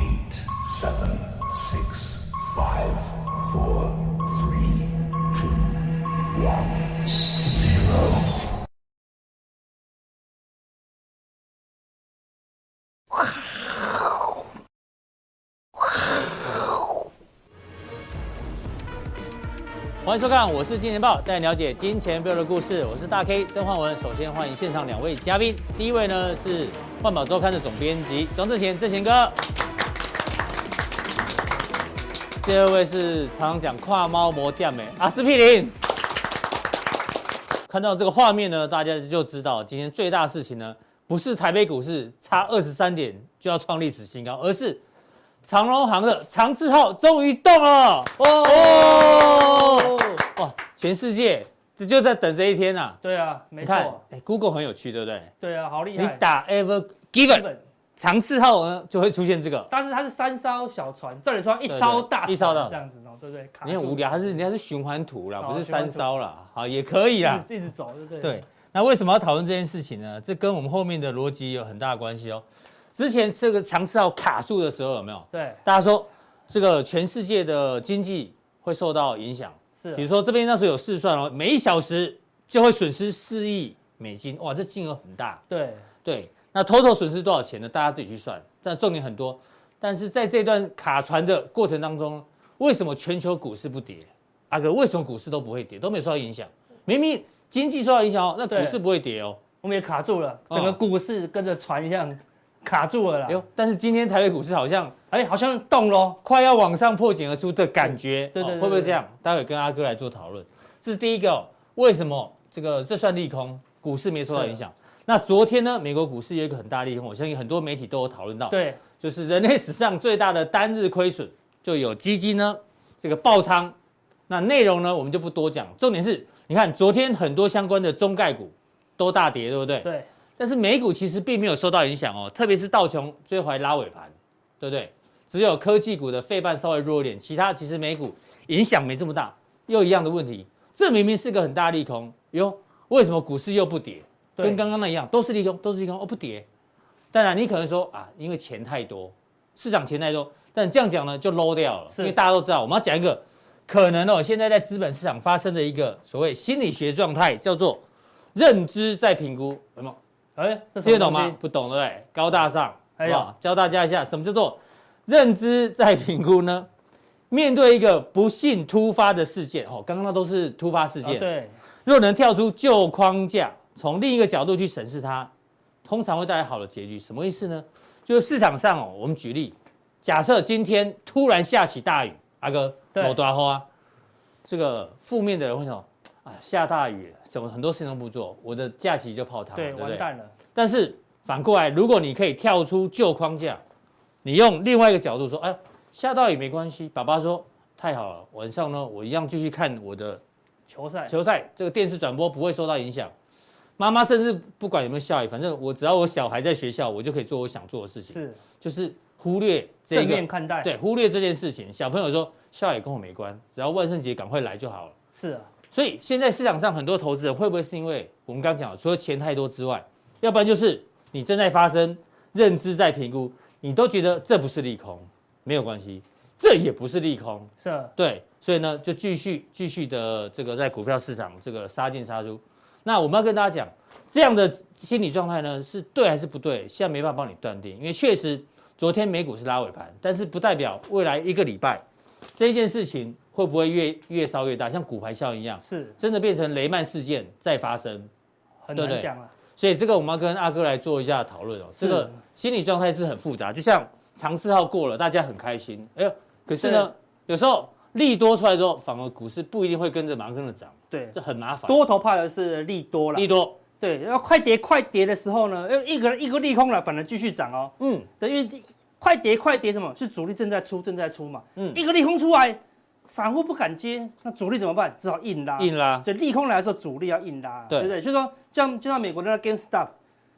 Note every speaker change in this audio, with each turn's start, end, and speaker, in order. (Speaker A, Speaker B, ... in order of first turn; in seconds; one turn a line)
Speaker A: 0.7-1.0
Speaker A: 1.5-2.6
Speaker A: 20.0-29.4
Speaker A: 32.4-35.7
Speaker A: 37.7-44.8
Speaker A: 45.5-53.0
Speaker B: 48.2-50.2
Speaker B: 53.0-54.0
Speaker A: 53.6-55.3
Speaker B: 55.4-56.2
Speaker A: 56.0-57.5
Speaker B: 57.3-57.6
Speaker A: 58.0-59.7
Speaker B: 59.7-64.4
Speaker A: 61.7-62.8
Speaker A: 63.6-67.5
Speaker B: 65.4-66.1
Speaker B: 67.2-68.4
Speaker A: 68.2-85.4
Speaker B: 75.3-75.6
Speaker B: 79.8-80.1
Speaker B: 85.5-85.8
Speaker A: 86.0-99.4
Speaker B: 98.5-98.8
Speaker B: 99.6-103.4
Speaker A: 100.5-100.8
Speaker A: 103.3-104.9
Speaker B: 105.1-106.2
Speaker A: 106.2-123.7
Speaker B: 107.8-109.0
Speaker B: 114.3-114.6
Speaker B: 118.5-118.8
Speaker A: 124.3-129.9
Speaker B: 129.8-130.1
Speaker A: 130.4-146.4
Speaker A: 147.1-157.8
Speaker B: 151.9-152.2
Speaker A: 158.3-160.0
Speaker B: 160.4-161.4
Speaker A: 160.8-166.7
Speaker B: 163.0-163.3
Speaker A: 167.3-171.3
Speaker B: 171.0-171.6
Speaker A: 171.8-175.3
Speaker A: 175.8-183.6
Speaker A: 184.4-193.6
Speaker B: 189.5-190.3
Speaker A: 194.2-200.2
Speaker B: 200.7-201.1
Speaker A: 201.1-203.1
Speaker A: 203.8-214.9
Speaker B: 208.1-208.4
Speaker B: 209.9-210.7
Speaker B: 215.1-215.5
Speaker A: 215.7-241.8
Speaker B: 227.6-227.9
Speaker A: 242.4-248.1
Speaker B: 245.6-245.9
Speaker B: 248.6-249.3
Speaker A: 248.8-261.8
Speaker B: 251.8-252.2
Speaker B: 256.6-256.9
Speaker B: 260.9-261.1
Speaker B: 261.7-263.3
Speaker A: 263.1-263.6
Speaker B: 263.8-279.9
Speaker A: 267.8-268.1
Speaker A: 275.6-276.1